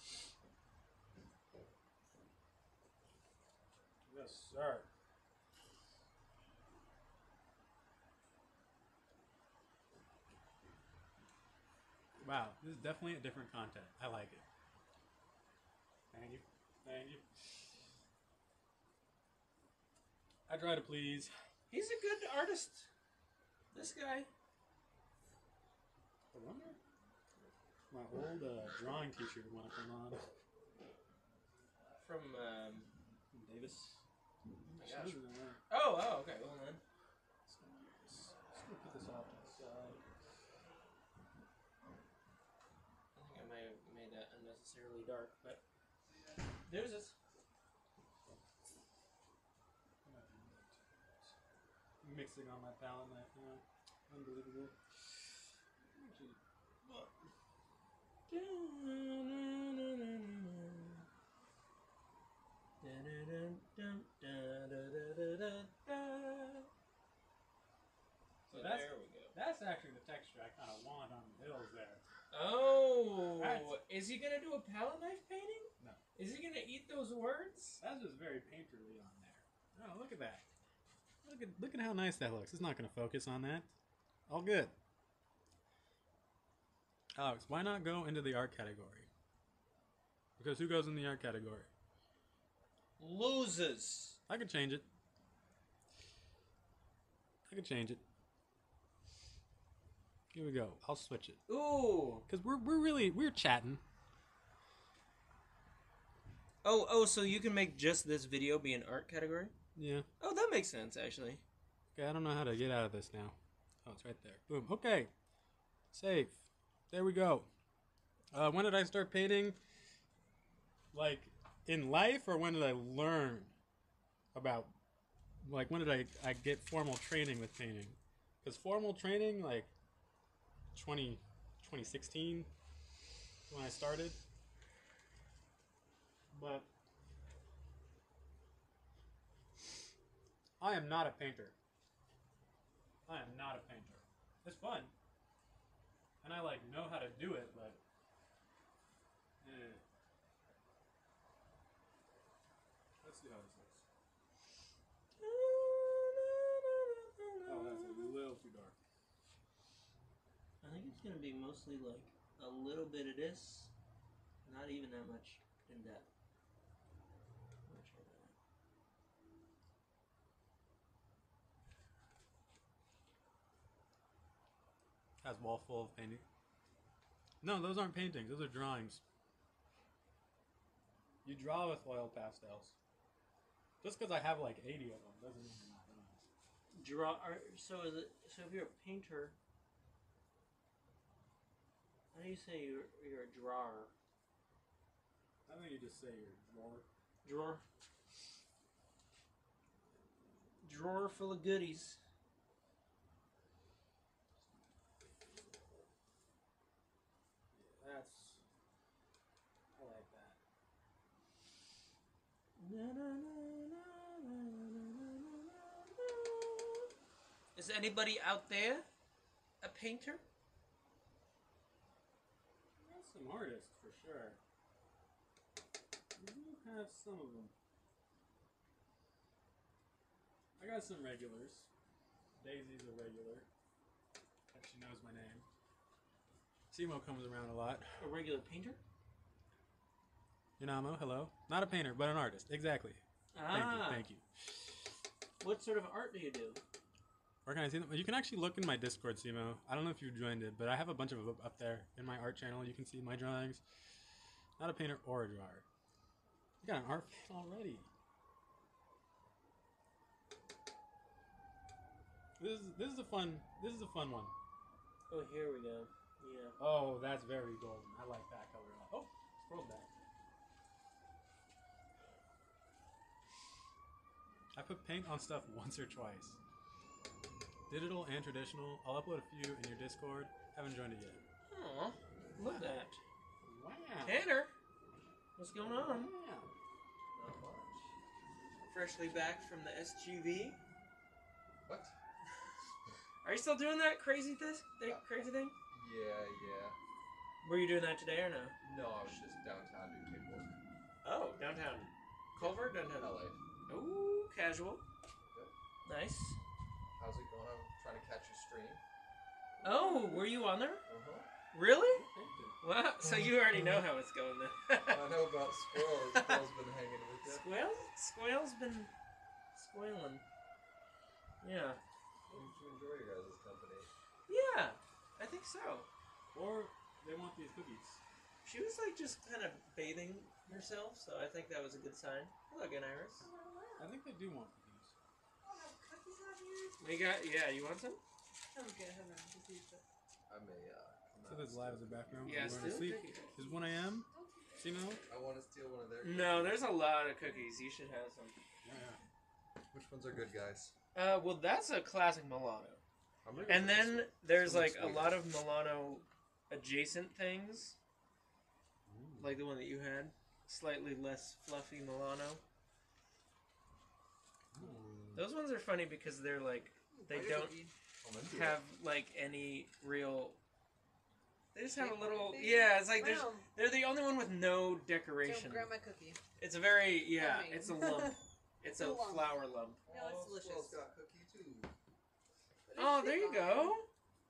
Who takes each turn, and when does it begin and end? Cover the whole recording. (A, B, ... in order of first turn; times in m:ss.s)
0:04.0-0:04.9 A
0:12.2-0:14.5 A
0:16.1-0:17.3 A
0:20.5-0:21.3 A
0:21.7-0:22.9 B
0:23.7-0:24.3 B
0:26.3-0:26.8 A
0:27.9-0:30.3 A
0:32.0-0:32.9 B
0:33.3-0:34.0 A
0:34.7-0:36.8 B
0:34.8-0:35.6 A
0:37.5-0:40.1 A
0:43.2-0:45.6 B
0:46.7-0:47.2 B
0:50.0-0:51.3 A
0:52.0-0:54.9 A
0:55.8-0:57.2 A
0:58.3-1:01.1 B
1:02.8-1:06.7 B
1:08.5-1:12.0 A
1:08.5-1:09.4 B
1:12.3-1:17.8 B
1:13.4-1:13.8 A
1:17.8-1:20.4 A
1:21.2-1:23.7 A
1:24.3-1:24.8 A
1:27.2-1:29.1 A
1:30.4-1:31.7 A
1:33.0-1:34.2 B
1:34.3-1:34.9 A
1:37.5-1:38.0 A
1:40.3-1:41.4 A
1:41.5-1:42.2 B
1:42.3-1:43.8 A
1:46.6-1:49.5 B
1:49.8-1:50.1 A
1:50.2-1:51.4 B
1:52.0-1:55.1 A
1:55.9-1:57.5 A
1:58.3-1:59.6 A
2:00.9-2:03.5 A
2:04.3-2:04.7 A
2:05.4-2:09.7 A
2:10.7-2:12.5 A
2:13.5-2:14.2 A
2:16.3-2:16.7 A
2:20.6-2:21.6 A
2:23.1-2:24.9 A
2:26.2-2:27.8 A
2:29.4-2:29.8 A
2:33.0-2:33.8 A
2:35.2-2:38.2 B
2:37.5-2:38.8 A
2:40.6-2:43.7 B
2:44.4-2:46.1 B
2:47.7-2:48.3 B
2:55.2-2:56.2 A
2:57.4-2:59.0 A
3:01.2-3:02.8 A
3:03.8-3:06.3 A
3:06.8-3:09.4 B
3:12.1-3:13.9 B
3:15.5-3:16.9 A
3:17.2-3:17.6 B
3:20.6-3:22.0 B
3:27.5-3:28.4 A
3:29.7-3:30.4 A
3:32.6-3:36.9 B
3:37.6-3:38.9 B
3:39.6-3:40.2 B
3:42.8-3:44.4 A
3:46.2-3:47.5 A
3:50.6-3:51.7 A
3:52.4-3:53.5 A
3:54.5-3:55.5 A
3:56.7-3:58.1 A
3:58.0-3:58.8 B
4:00.6-4:04.2 A
4:03.3-4:04.0 B
4:05.4-4:06.6 B
4:07.4-4:13.6 A
4:14.6-4:15.6 A
4:16.6-4:17.9 A
4:22.4-4:24.3 A
4:25.1-4:26.6 B
4:26.6-4:29.9 A
4:34.5-4:36.4 A
4:37.7-4:41.2 A
4:41.5-4:43.0 B
4:42.4-4:42.7 A
4:43.4-4:44.2 A
4:44.0-4:44.5 B
4:45.4-4:46.1 B
4:45.6-4:46.5 A
4:47.2-4:47.8 C
4:48.7-4:50.6 B
4:51.7-4:51.9 C
4:53.2-4:55.5 B
4:55.7-4:56.8 C
4:57.4-4:58.6 B
4:58.6-5:00.6 C
5:01.0-5:04.8 B
5:02.4-5:03.4 C
5:05.8-5:06.4 B
5:07.0-5:08.8 C
5:09.6-5:10.8 B
5:10.8-5:11.3 C
5:11.5-5:12.0 B
5:11.9-5:12.6 A
5:12.6-5:15.2 B
5:14.9-5:17.5 C
5:16.1-5:16.4 B
5:17.2-5:18.9 B
5:19.6-5:20.2 B
5:21.4-5:21.8 B
5:22.3-5:23.9 C
5:24.3-5:25.9 B
5:26.3-5:28.0 A
5:28.4-5:33.3 B
5:33.2-5:33.9 D
5:33.8-5:34.9 A
5:35.4-5:36.9 D
5:36.8-5:38.0 B
5:38.5-5:39.8 D
5:40.3-5:42.7 C
5:41.2-5:45.0 A
5:42.2-5:43.3 B
5:42.7-5:45.0 D
5:45.1-5:46.8 C
5:46.0-5:48.4 B
5:48.6-5:49.0 A
5:49.7-5:50.7 C
5:51.0-5:52.8 B
5:53.2-5:55.2 C
5:53.3-5:53.7 A
5:53.5-5:57.8 B
5:58.9-5:59.4 A
5:59.2-6:02.4 B
6:04.5-6:05.2 A
6:05.2-6:07.6 B
6:06.9-6:07.7 D
6:08.0-6:08.6 C
6:08.2-6:10.4 B
6:11.6-6:15.7 B
6:11.6-6:13.5 D
6:15.2-6:16.2 D
6:16.4-6:19.8 B
6:17.1-6:19.3 D
6:19.9-6:21.7 C
6:19.9-6:20.8 D
6:22.6-6:23.8 D
6:22.8-6:23.9 B